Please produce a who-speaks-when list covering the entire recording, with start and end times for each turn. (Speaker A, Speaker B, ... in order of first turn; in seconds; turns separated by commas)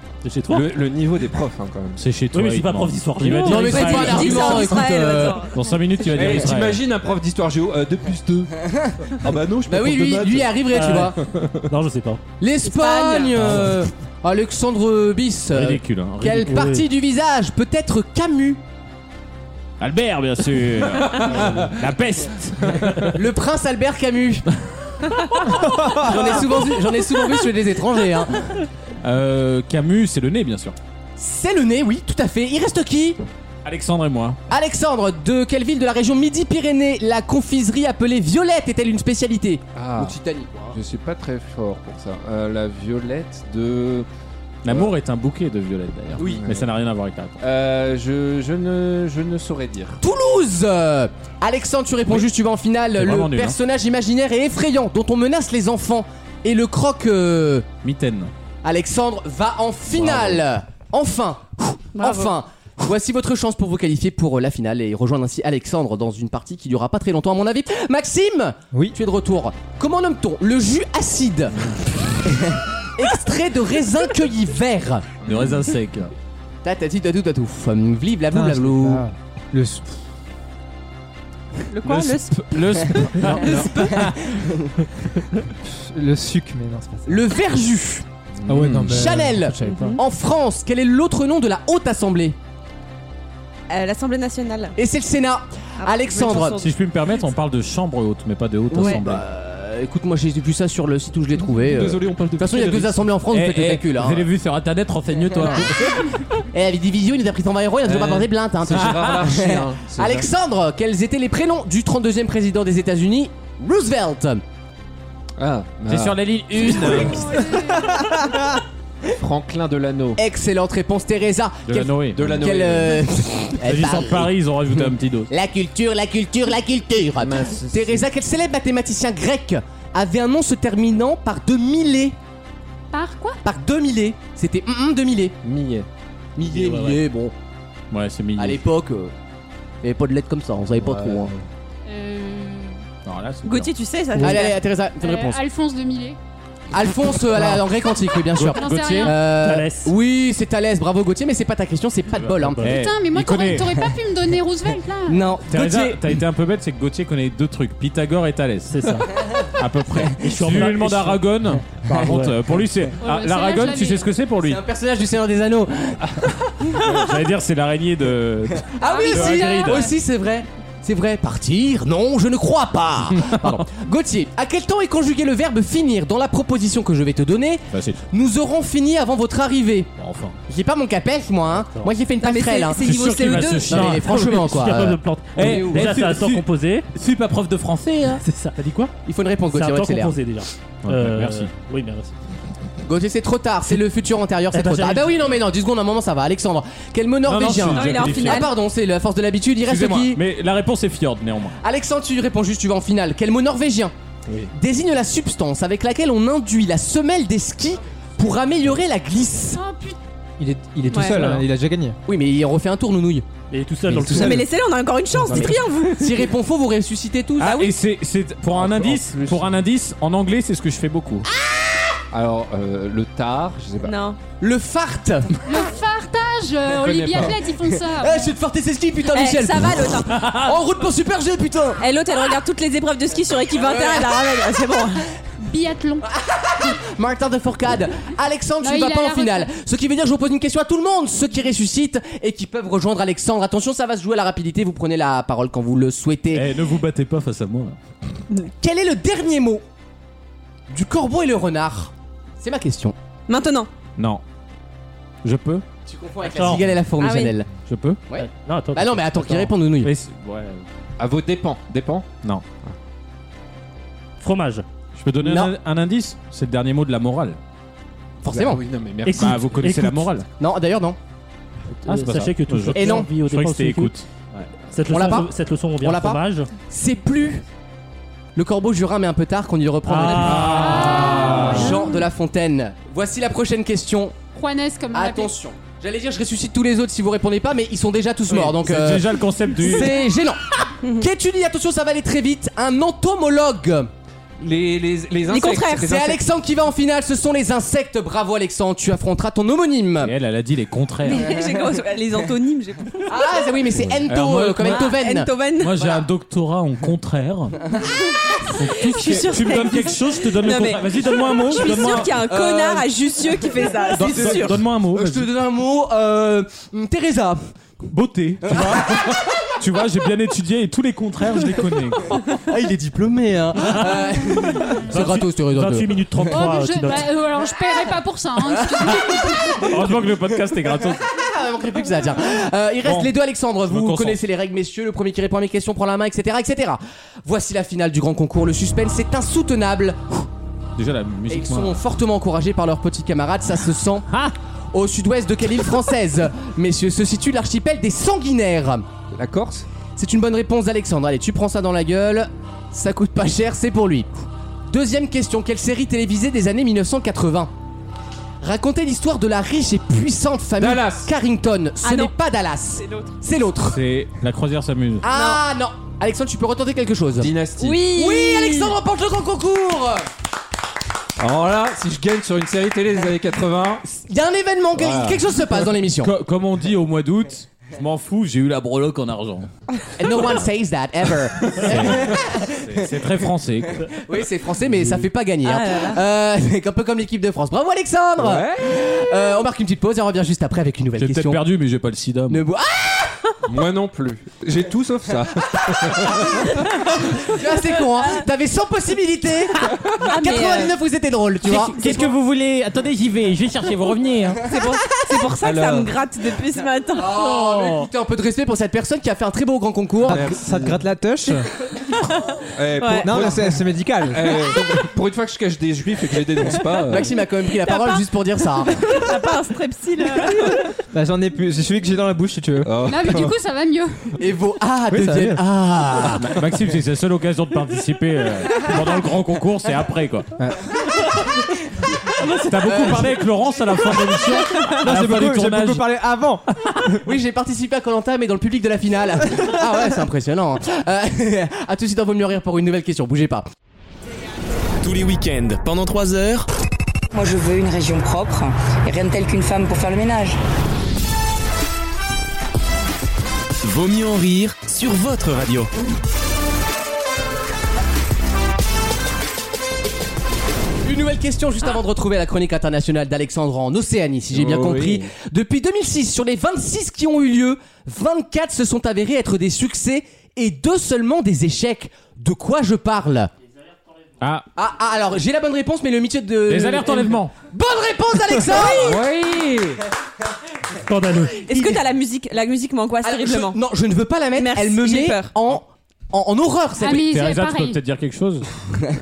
Speaker A: 0.2-0.7, Speaker B: 0.5-2.0, Speaker C: 2.0-4.6, Speaker A: 2.3-4.7, Speaker D: 3.4-5.7, Speaker E: 3.4-5.5, Speaker C: 5.5-6.8, Speaker B: 6.1-8.6, Speaker E: 8.7-9.0, Speaker B: 9.1-11.6, Speaker E: 9.7-11.2, Speaker A: 10.7-12.2, Speaker E: 12.4-18.6, Speaker D: 12.6-13.6, Speaker C: 13.4-13.7, Speaker C: 15.5-16.6, Speaker A: 16.4-16.8, Speaker C: 19.8-23.2, Speaker B: 21.1-21.7, Speaker E: 23.1-24.4, Speaker C: 25.2-26.4, Speaker E: 25.9-28.5, Speaker C: 29.0-30.8, Speaker E: 31.2-33.2, Speaker C: 33.6-34.4, Speaker E: 34.5-40.8, Speaker B: 39.7-40.2, Speaker B: 40.7-44.1, Speaker C: 44.6-47.4, Speaker B: 44.7-44.9, Speaker E: 46.2-46.4, Speaker B: 46.2-46.7, Speaker B: 47.4-50.0, Speaker E: 50.0-57.7, Speaker C: 53.0-53.6, Speaker C: 57.8-58.3, Speaker E: 58.6-71.7, Speaker B: 59.9-60.4, Speaker D: 61.9-62.3, Speaker E: 72.3-75.1, Speaker B: 75.2-75.6, Speaker C: 75.2-76.1, Speaker E: 76.6-79.0, Speaker F: 78.3-79.8, Speaker D: 81.7-84.0, Speaker C: 81.8-84.3, Speaker E: 84.3-84.7, Speaker F: 85.6-87.2, Speaker E: 87.1-88.0, Speaker B: 88.5-89.1, Speaker F: 88.5-90.0, Speaker E: 88.8-92.4, Speaker D: 89.6-90.0, Speaker D: 93.7-94.8, Speaker E: 94.8-96.6, Speaker D: 95.8-96.7, Speaker C: 96.5-99.2, Speaker E: 98.7-104.3, Speaker D: 98.7-99.0, Speaker B: 101.6-103.0, Speaker C: 103.3-106.2, Speaker E: 106.5-114.4, Speaker B: 107.8-110.3, Speaker C: 108.7-109.2, Speaker B: 115.4-117.3, Speaker C: 115.9-117.2, Speaker G: 117.1-118.1, Speaker B: 119.0-120.2, Speaker E: 120.2-124.3, Speaker C: 121.7-122.3, Speaker B: 122.1-123.1, Speaker C: 123.6-125.3, Speaker E: 125.3-132.2, Speaker B: 127.2-128.1, Speaker G: 132.9-133.4, Speaker E: 133.4-135.3, Speaker B: 135.4-135.9, Speaker E: 136.3-137.3, Speaker A: 136.6-136.9, Speaker C: 137.9-138.6, Speaker E: 138.3-139.1, Speaker E: 139.8-141.3, Speaker G: 141.8-142.8, Speaker C: 143.0-143.7, Speaker D: 143.4-144.6, Speaker E: 144.2-145.4, Speaker G: 145.0-146.2, Speaker E: 146.7-152.7, Speaker C: 148.3-149.2, Speaker G: 148.5-149.1, Speaker A: 149.3-149.9, Speaker C: 152.2-153.9, Speaker A: 152.4-152.7, Speaker G: 152.6-155.3, Speaker E: 155.1-156.0, Speaker C: 155.5-159.0, Speaker A: 158.7-159.1, Speaker C: 159.5-164.6, Speaker A: 160.2-162.4, Speaker G: 163.0-164.1, Speaker E: 164.4-166.2, Speaker C: 166.6-169.9, Speaker E: 168.7-179.9, Speaker G: 168.8-169.9, Speaker C: 173.2-173.6, Speaker C: 177.7-178.0, Speaker C: 180.0-180.4, Speaker E: 180.5-182.9, Speaker A: 181.6-181.9, Speaker D: 182.2-183.9, Speaker C: 182.8-184.2, Speaker E: 183.7-186.0, Speaker A: 183.7-186.9, Speaker C: 185.3-188.9, Speaker A: 188.2-188.9, Speaker E: 189.0-190.2, Speaker A: 189.5-192.1, Speaker C: 190.8-191.5, Speaker E: 192.8-200.2, Speaker A: 194.5-195.1, Speaker C: 197.2-198.5, Speaker D: 197.6-198.5, Speaker C: 199.6-201.6, Speaker E: 201.6-203.9, Speaker E: 204.5-209.6, Speaker G: 209.5-210.0, Speaker F: 210.4-212.0, Speaker D: 210.9-211.4, Speaker E: 212.1-213.2, Speaker A: 213.5-214.5, Speaker E: 213.9-214.3, Speaker D: 214.1-216.3, Speaker E: 215.2-217.6, Speaker D: 217.4-217.7, Speaker C: 217.4-221.3, Speaker F: 218.6-219.3, Speaker B: 222.1-223.9, Speaker D: 223.8-224.2, Speaker E: 224.4-225.4, Speaker G: 225.4-228.3, Speaker B: 226.8-227.4, Speaker E: 227.3-231.8, Speaker D: 229.1-230.2, Speaker C: 230.1-230.5, Speaker D: 231.8-235.1, Speaker E: 233.6-234.2, Speaker G: 235.4-236.1, Speaker E: 236.1-246.5, Speaker G: 238.6-239.5, Speaker C: 246.3-247.8, Speaker E: 248.5-249.6, Speaker E: 250.7-252.9, Speaker D: 253.3-253.7, Speaker C: 254.0-254.2, Speaker C: 255.2-255.6, Speaker E: 255.8-257.5, Speaker A: 256.3-256.7, Speaker D: 257.0-257.3, Speaker C: 257.6-258.0, Speaker E: 258.1-259.9, Speaker A: 258.1-259.5, Speaker C: 259.8-260.6, Speaker B: 261.0-262.1, Speaker A: 264.2-264.6, Speaker C: 265.0-267.4, Speaker E: 265.2-265.5, Speaker E: 268.2-268.6, Speaker B: 268.3-269.5, Speaker A: 269.0-270.1, Speaker C: 269.1-270.3, Speaker E: 270.4-271.0, Speaker A: 271.8-273.9, Speaker C: 271.9-274.5, Speaker E: 272.7-273.1, Speaker A: 274.6-276.5, Speaker E: 274.9-277.4, Speaker E: 278.3-284.1, Speaker A: 279.8-281.5, Speaker C: 280.1-281.8, Speaker G: 280.7-281.5, Speaker G: 284.3-285.3, Speaker E: 284.9-293.9, Speaker C: 288.3-290.1, Speaker B: 294.4-296.2, Speaker D: 295.3-295.9, Speaker E: 295.8-300.1, Speaker C: 300.0-301.3, Speaker D: 301.0-303.5, Speaker E: 303.1-305.3, Speaker C: 304.0-304.9, Speaker D: 304.6-305.9, Speaker C: 305.6-307.6, Speaker D: 308.5-314.6, Speaker C: 308.6-312.2, Speaker E: 312.2-317.5, Speaker C: 313.9-315.3, Speaker C: 317.9-322.2, Speaker E: 318.4-319.1, Speaker E: 322.3-326.4, Speaker A: 324.9-327.1, Speaker G: 326.3-329.7, Speaker E: 328.6-329.9, Speaker C: 329.6-331.1, Speaker E: 331.1-340.2, Speaker C: 332.8-333.1, Speaker C: 333.6-334.2, Speaker C: 340.8-341.8, Speaker E: 341.3-344.1, Speaker E: 344.7-348.9, Speaker B: 349.1-349.7, Speaker E: 349.9-354.1, Speaker E: 354.7-357.5, Speaker E: 358.4-363.8, Speaker B: 360.6-361.1, Speaker D: 361.8-362.1, Speaker D: 362.8-363.1, Speaker C: 363.6-365.0, Speaker E: 365.0-367.3, Speaker D: 365.1-365.4, Speaker B: 367.1-367.9, Speaker D: 367.6-368.8, Speaker E: 367.9-370.1, Speaker B: 371.2-373.8, Speaker E: 373.9-376.1, Speaker B: 374.8-375.3, Speaker C: 376.0-379.5, Speaker E: 379.9-382.9, Speaker C: 381.6-383.9, Speaker E: 383.9-391.4, Speaker D: 385.4-386.0, Speaker B: 388.2-388.8, Speaker C: 391.0-392.4, Speaker E: 392.3-393.3, Speaker B: 393.4-396.6, Speaker E: 395.8-402.1, Speaker D: 400.0-400.7, Speaker C: 401.4-404.5, Speaker D: 404.4-407.2, Speaker B: 405.4-405.9, Speaker E: 406.9-410.3, Speaker A: 407.3-407.9, Speaker F: 410.0-411.5, Speaker B: 410.1-410.8, Speaker B: 412.5-417.1, Speaker D: 412.8-413.3, Speaker F: 413.0-414.4, Speaker E: 416.9-418.9, Speaker D: 417.5-420.6, Speaker F: 420.9-422.8, Speaker B: 422.6-423.3, Speaker G: 422.8-424.1, Speaker E: 424.2-426.4, Speaker F: 424.9-425.4, Speaker C: 426.2-430.3, Speaker C: 432.2-435.9, Speaker E: 432.5-433.1, Speaker F: 434.8-437.0, Speaker E: 437.0-443.4, Speaker H: 444.8-446.5, Speaker I: 447.1-450.4, Speaker H: 453.6-455.7, Speaker E: 460.8-473.3, Speaker C: 464.5-464.9, Speaker C: 474.2-474.5, Speaker E: 474.6-479.0, Speaker C: 476.4-477.3, Speaker B: 478.7-479.8, Speaker A: 480.9-481.5, Speaker D: 481.4-483.6, Speaker E: 481.5-481.8, Speaker E: 483.0-487.1, Speaker D: 484.4-485.3, Speaker G: 486.8-487.8, Speaker C: 486.8-488.5